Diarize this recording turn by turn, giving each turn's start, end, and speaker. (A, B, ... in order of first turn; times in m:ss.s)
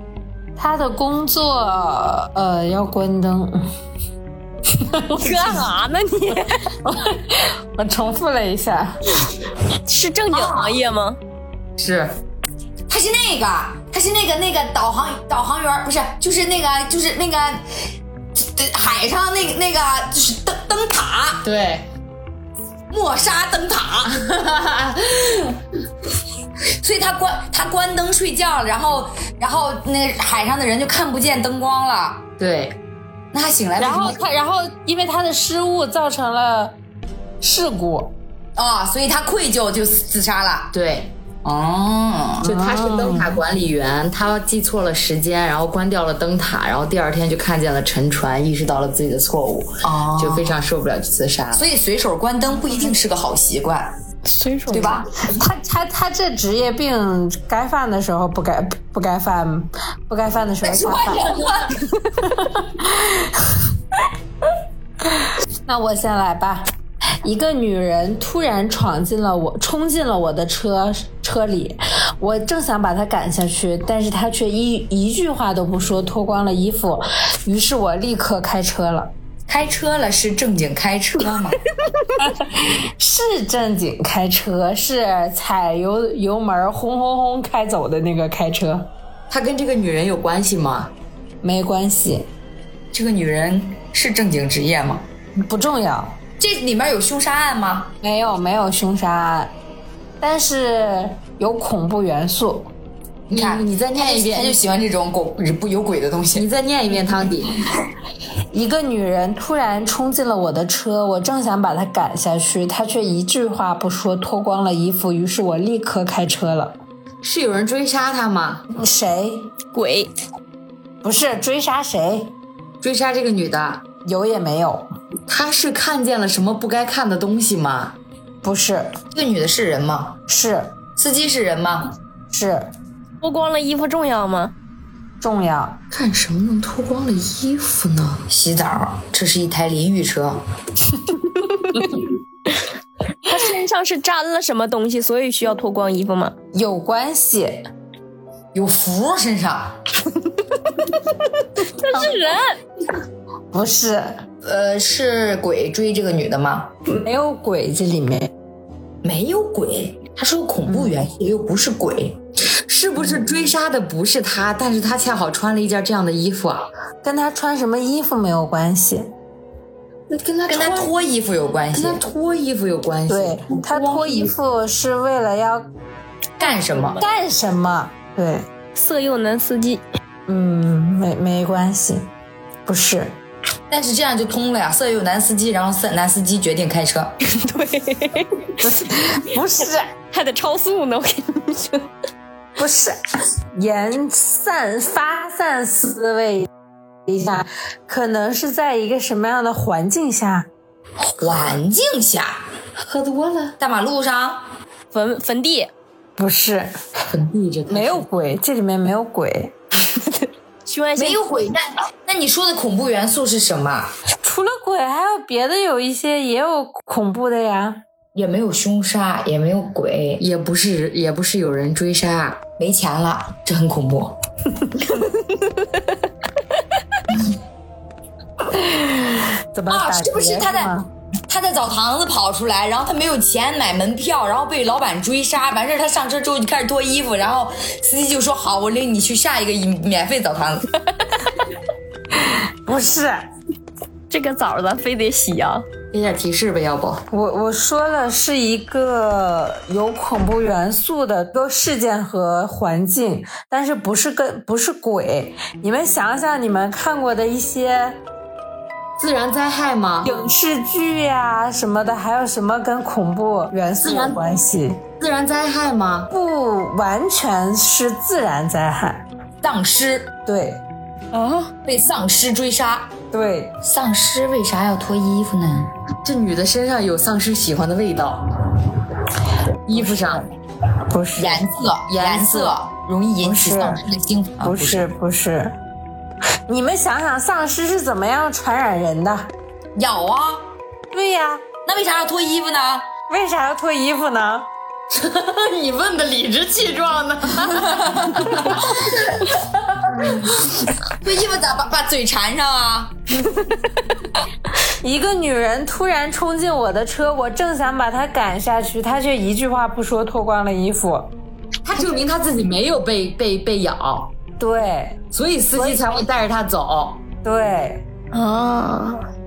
0:00.6-0:03.7 A
0:04.7-0:05.6 A
0:05.1-0:06.8 B
0:06.9-0:09.0 A
0:09.9-0:11.2 B
0:10.3-0:10.7 C
0:11.8-0:12.2 D
0:12.9-0:17.6 C
0:18.3-0:21.4 C
0:21.4-0:21.9 D
0:22.9-0:24.2 C
0:24.3-0:25.2 D
0:26.8-0:32.3 C
0:32.4-0:32.8 D
0:33.3-0:34.2 C
0:33.8-0:36.8 A
0:37.4-0:38.1 A
0:38.6-0:40.7 C
0:40.7-0:41.1 D
0:41.4-0:42.6 C
0:42.4-0:51.7 D
0:42.6-0:43.4 A
0:49.8-0:50.6 C
0:51.5-0:53.9 C
0:54.2-0:55.0 B
0:54.7-0:55.4 C
0:55.3-1:01.4 A
1:00.6-1:01.8 C
1:02.2-1:03.6 A
1:05.6-1:06.7 A
1:07.2-1:19.1 A
1:19.5-1:21.6 C
1:22.2-1:28.9 A
1:29.3-1:30.9 D
1:31.4-1:32.3 A
1:32.9-1:35.0 C
1:35.4-1:36.2 A
1:36.4-1:37.9 C
1:38.0-1:39.5 A
1:40.2-1:42.7 A
1:43.3-1:44.6 D
1:43.3-1:46.5 C
1:46.3-1:47.6 D
1:48.5-1:56.8 A
1:57.2-1:58.6 D
1:58.8-1:59.5 A
1:59.7-2:00.1 B
2:01.0-2:02.3 A
2:02.8-2:03.8 D
2:04.0-2:04.9 A
2:05.3-2:08.0 D
2:08.4-2:09.0 A
2:09.1-2:10.2 C
2:10.3-2:10.7 A
2:11.0-2:12.0 C
2:12.3-2:12.7 A
2:13.2-2:14.5 B
2:15.2-2:15.8 A
2:15.9-2:18.2 D
2:18.3-2:20.4 C
2:23.2-2:26.3 B
2:26.5-2:27.6 A
2:28.5-2:29.8 C
2:31.6-2:32.6 B
2:33.5-2:34.2 A
2:34.4-2:36.7 C
2:36.9-2:38.3 A
2:39.0-2:42.2 C
2:42.5-2:46.7 D
2:47.0-2:49.1 A
2:50.1-2:50.9 D
2:50.5-2:52.0 C
2:51.7-2:54.3 D
2:53.1-2:55.7 A
2:56.4-2:57.0 C
2:56.4-2:57.0 B
2:57.0-2:58.5 A
2:58.7-2:59.8 B
3:00.3-3:02.1 A
3:02.6-3:03.2 A
3:03.7-3:07.2 C
3:07.2-3:08.8 B
3:08.6-3:09.9 A
3:10.1-3:11.9 B
3:12.6-3:13.0 A
3:13.5-3:16.5 A
3:17.1-3:20.5 A
3:21.0-3:22.4 C
3:22.8-3:23.6 D
3:23.6-3:24.5 C
3:24.9-3:25.7 B
3:26.2-3:26.7 A
3:27.1-3:28.0 D
3:27.7-3:29.5 A
3:30.6-3:31.4 B
3:31.0-3:33.9 C
3:34.2-3:37.8 A
3:38.1-3:40.2 C
3:40.2-3:42.4 D
3:42.6-3:44.2 C
3:44.9-3:45.7 B
3:48.5-3:50.9 A
3:49.7-3:50.8 C
3:51.3-4:00.7 C
4:02.2-4:03.2 A
4:04.1-4:05.6 B
4:05.9-4:07.0 D
4:07.1-4:18.0 A
4:19.0-4:20.2 D
4:20.0-4:24.8 A
4:23.8-4:24.2 D
4:25.0-4:26.1 D
4:26.1-4:29.0 A
4:29.4-4:30.1 C
4:30.2-4:30.6 A
4:31.1-4:31.5 B
4:31.6-4:32.9 C
4:33.1-4:33.5 A
4:33.6-4:35.7 C
4:36.0-4:38.5 D
4:39.6-4:40.2 D
4:39.7-4:40.3 C
4:40.9-4:41.4 A
4:41.2-4:44.9 C
4:41.9-4:42.6 D
4:43.2-4:43.8 A
4:44.4-4:45.6 A
4:46.5-4:49.3 A
4:49.8-4:50.5 C
4:50.9-4:51.4 A
4:51.6-4:52.9 C
4:53.1-4:54.5 A
4:54.9-4:59.0 D
5:00.0-5:02.9 C
5:04.7-5:11.1 A
5:11.6-5:14.1 D
5:14.4-5:15.0 A
5:15.1-5:17.0 D
5:15.5-5:15.8 A
5:17.2-5:17.8 A
5:18.1-5:19.0 B